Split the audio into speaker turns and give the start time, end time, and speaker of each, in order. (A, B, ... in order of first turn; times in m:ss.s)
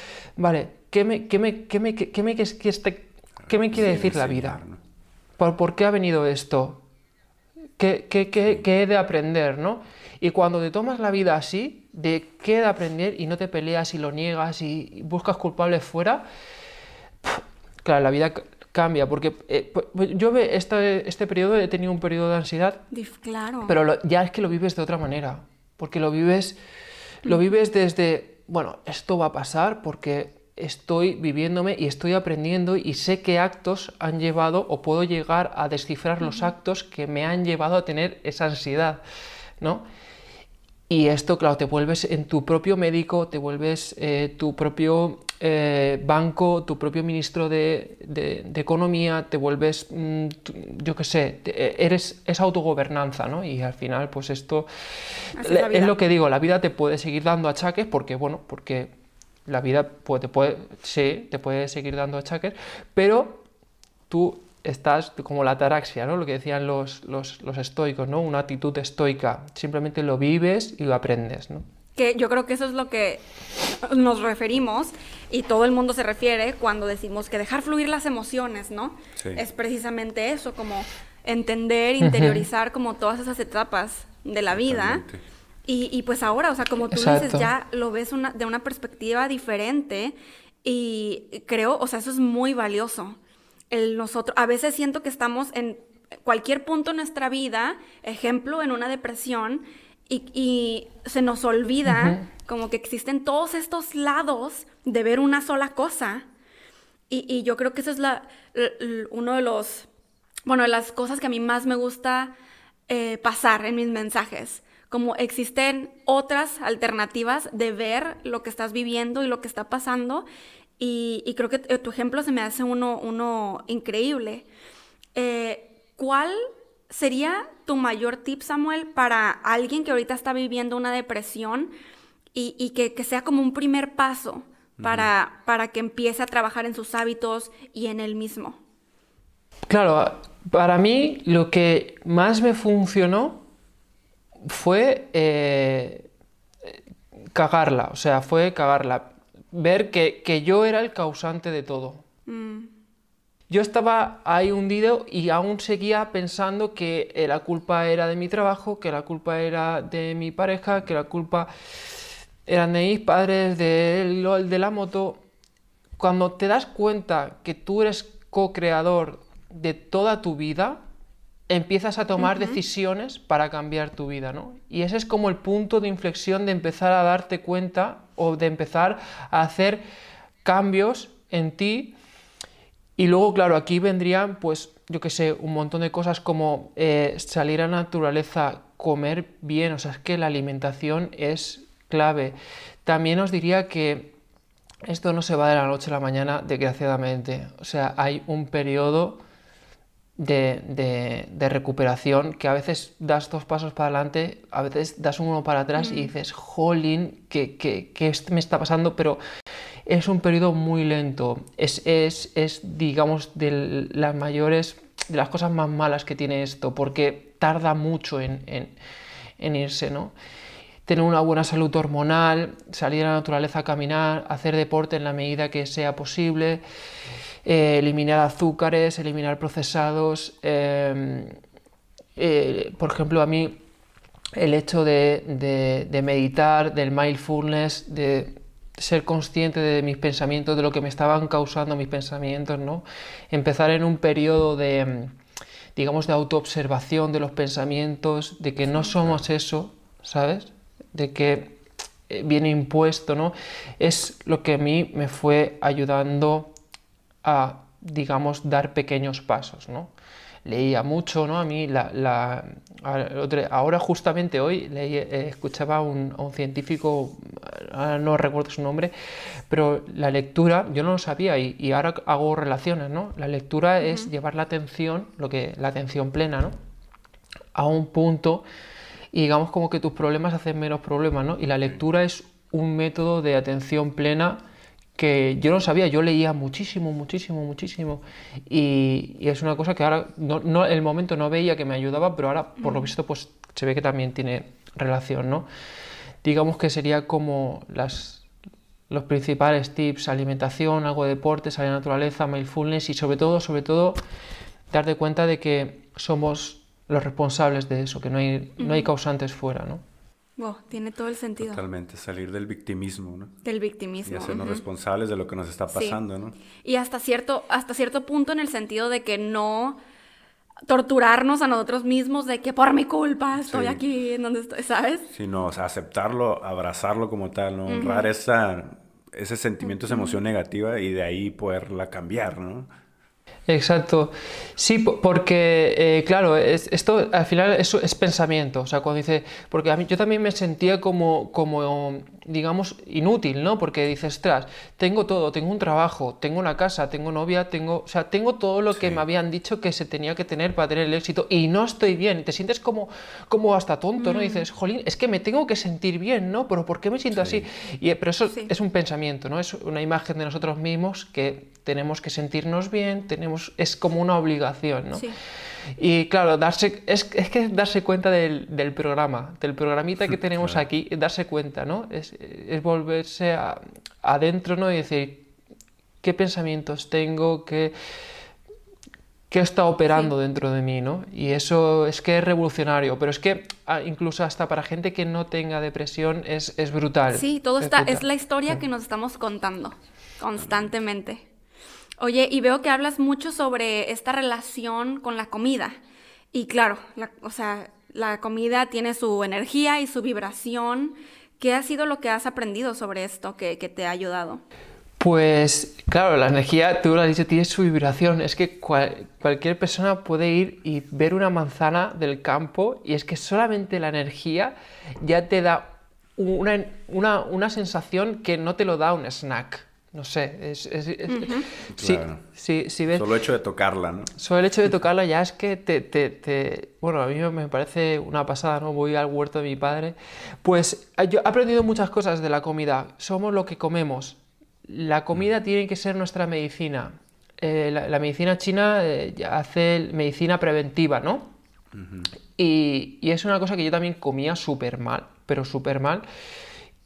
0:00.4-0:04.6 A
0:03.5-0:04.8 B
0:05.4-0:06.8 A
0:07.8-0:16.2 A
0:17.2-0:22.8 A
0:22.9-0:23.7 C
0:23.6-0:26.6 A
0:27.2-0:39.0 A
0:36.2-0:36.5 C
0:39.6-0:39.8 A
0:40.9-0:54.7 A
0:55.4-0:55.9 C
0:55.4-0:58.9 A
0:59.5-1:03.4 A
1:04.1-1:11.6 A
1:12.0-1:25.0 C
1:19.2-1:19.4 B
1:22.0-1:22.4 A
1:24.5-1:25.2 B
1:25.7-1:33.2 C
1:26.9-1:27.5 A
1:33.7-1:46.3 C
1:41.8-1:42.2 A
1:47.1-1:49.9 C
1:50.4-1:52.3 C
1:52.9-2:00.2 C
2:00.8-2:04.4 C
2:05.1-2:11.7 C
2:12.3-2:18.6 C
2:14.8-2:15.1 B
2:19.7-2:23.4 A
2:24.4-2:26.1 A
2:27.3-2:32.0 A
2:32.3-2:32.7 C
2:33.5-2:41.5 A
2:42.4-2:45.2 A
2:46.0-2:50.8 A
2:51.5-2:59.8 A
2:52.2-2:52.6 C
3:00.4-3:01.9 A
3:03.0-3:14.1 A
3:14.8-3:19.2 A
3:20.2-3:29.2 A
3:25.8-3:26.1 C
3:29.9-3:38.8 A
3:39.4-3:40.1 A
3:40.8-3:46.6 A
3:47.4-3:51.4 A
3:52.2-3:53.6 A
3:54.3-4:05.2 A
4:05.8-4:16.5 A
4:17.2-4:19.9 A
4:20.4-4:28.9 A
4:29.5-4:36.5 A
4:33.8-4:34.1 C
4:37.5-4:38.4 A
4:39.1-4:44.4 A
4:45.0-4:55.4 A
4:52.6-4:52.9 C
4:56.2-4:58.2 A
4:58.9-5:04.0 A
5:04.7-5:09.8 A
5:08.6-5:08.9 C
5:10.4-5:11.6 C
5:11.4-5:13.3 B
5:13.4-5:14.6 C
5:14.0-5:16.4 B
5:15.7-5:16.0 C
5:16.6-5:19.8 C
5:20.7-5:25.1 C
5:23.4-5:23.8 B
5:25.1-5:32.7 B
5:27.7-5:28.1 C
5:29.9-5:30.2 C
5:33.5-6:05.1 A
5:48.7-5:49.0 B
5:54.0-5:54.4 C
5:57.1-5:57.4 B
6:05.8-6:15.3 A
6:16.0-6:17.7 A
6:19.3-6:28.0 A
6:27.1-6:31.2 C
6:32.0-6:35.8 C
6:36.3-6:44.4 C
6:45.0-7:03.1 A
7:01.1-7:01.5 C
7:01.7-7:02.2 B
7:02.9-7:04.1 B
7:04.2-7:21.3 A
7:21.7-7:22.1 B
7:22.4-7:26.0 A